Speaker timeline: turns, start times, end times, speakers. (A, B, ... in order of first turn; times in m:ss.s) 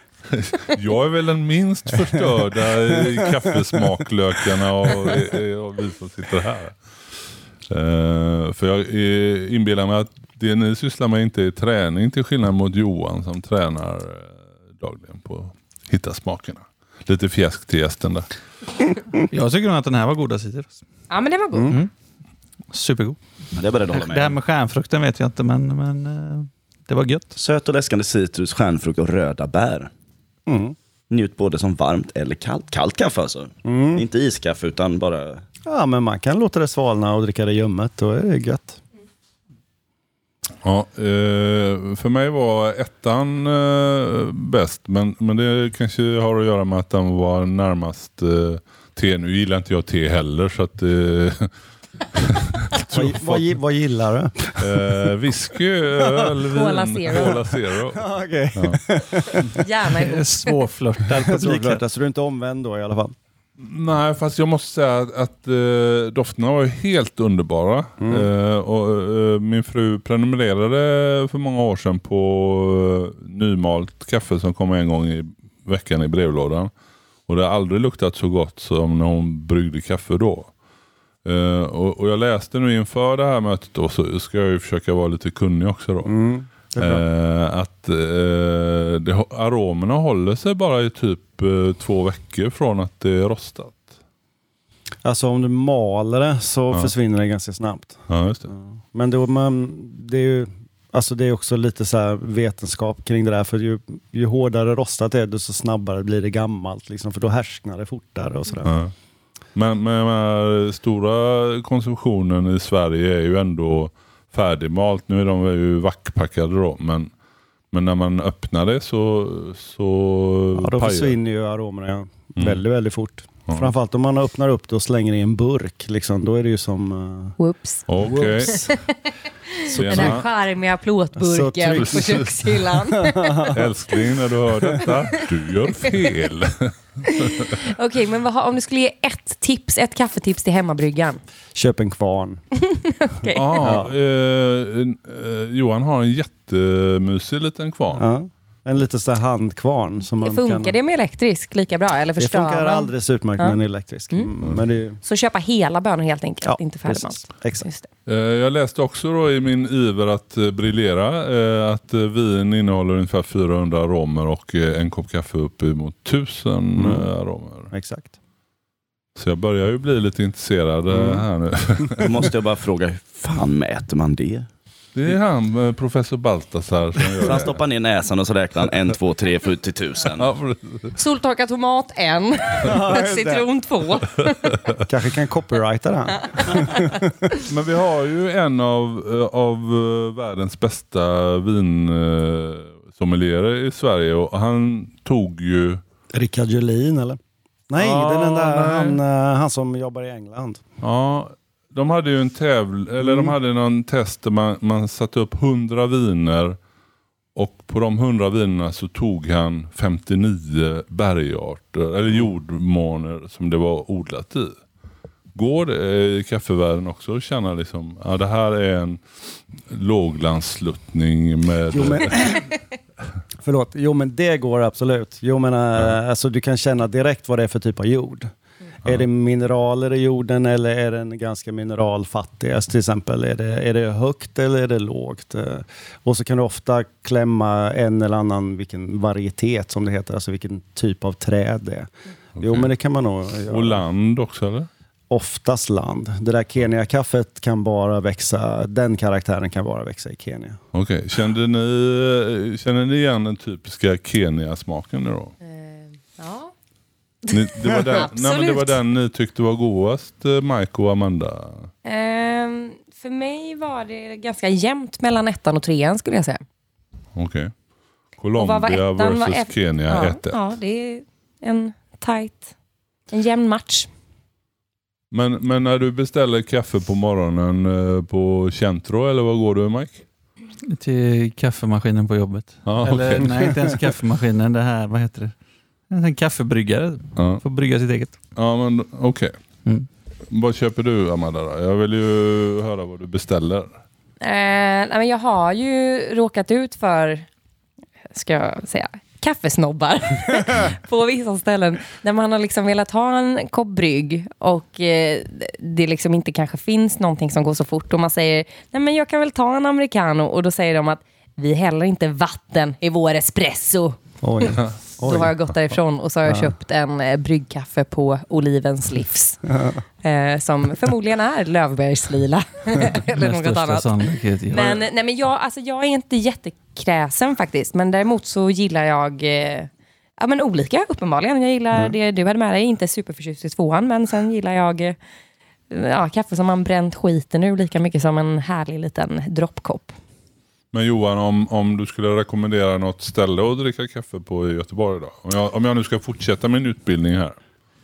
0:00.3-0:06.8 A
0:02.9-0:03.8 B
0:07.7-0:18.3 A
0:19.2-0:20.8 C
0:21.1-0:21.8 D
0:22.7-0:23.2 C
0:23.5-0:24.4 E
0:23.9-0:27.3 C
0:27.3-0:29.9 E
0:30.5-0:30.8 B
0:31.1-0:35.4 E
0:33.6-0:34.0 B
0:35.6-0:38.8 B
0:40.6-0:51.5 A
0:52.1-0:53.5 A
0:52.9-0:55.0 B
0:54.6-0:58.8 A
0:56.0-0:56.3 B
0:56.5-0:57.4 D
0:57.9-0:59.6 B
0:59.5-1:00.5 D
1:00.0-1:01.8 C
1:01.1-1:03.2 B
1:03.6-1:16.7 A
1:08.0-1:08.3 B
1:17.3-1:20.5 A
1:21.2-1:26.1 A
1:26.0-1:27.0 B
1:26.8-1:33.9 A
1:35.0-1:48.7 B
1:38.1-1:38.5 A
1:48.6-1:48.9 A
1:49.5-1:57.1 A
1:57.7-2:01.2 A
2:00.6-2:07.3 B
2:03.5-2:03.7 A
2:07.4-2:07.9 D
2:07.9-2:08.6 A
2:08.0-2:08.7 B
2:08.4-2:08.8 D
2:09.5-2:13.5 D
2:09.7-2:10.2 B
2:09.7-2:10.2 A
2:11.2-2:12.3 B
2:11.7-2:12.3 A
2:12.9-2:13.7 B
2:13.5-2:17.6 A
2:14.6-2:14.9 B
2:17.0-2:21.2 D
2:21.5-2:22.4 B
2:22.7-2:23.6 D
2:23.3-2:28.0 A
2:23.6-2:23.9 B
2:27.9-2:30.7 B
2:30.2-2:33.6 D
2:32.2-2:35.0 B
2:35.0-2:37.9 D
2:36.4-2:37.6 B
2:38.1-2:47.7 A
2:46.8-2:47.1 B
2:47.7-2:48.1 B
2:49.2-2:52.3 A
2:50.9-2:51.2 B
2:52.0-2:54.5 E
2:54.9-2:57.6 A
2:57.2-3:00.3 E
3:00.2-3:00.9 A
3:00.9-3:04.5 D
3:02.6-3:03.5 B
3:04.8-3:07.3 B
3:06.3-3:06.9 D
3:07.4-3:15.8 A
3:16.1-3:20.6 B
3:17.8-3:19.0 A
3:20.8-3:26.6 A
3:23.0-3:23.3 B
3:27.3-3:34.5 A
3:35.3-3:39.0 A
3:39.7-3:42.2 A
3:41.7-3:42.5 B
3:43.4-3:48.3 B
3:48.8-4:03.8 B
4:02.4-4:02.7 A
4:03.5-4:04.7 A
4:05.1-4:10.6 B
4:10.7-4:15.3 A
4:15.4-4:16.5 D
4:17.3-4:18.8 D
4:17.3-4:21.7 A
4:21.8-4:26.4 D
4:27.1-4:27.5 A
4:28.2-4:30.4 A
4:28.4-4:32.5 D
4:33.1-4:33.9 D
4:35.1-4:40.0 A
4:40.6-4:45.3 C
4:42.6-4:43.4 A
4:45.9-4:48.1 C
4:47.2-4:47.4 A
4:48.4-4:49.3 A
4:50.3-4:53.7 A
4:54.2-4:57.2 D
4:58.1-5:19.4 D
5:14.2-5:15.3 B
5:20.0-5:35.0 D
5:23.1-5:24.8 C
5:35.7-5:39.9 D
5:40.7-5:47.4 A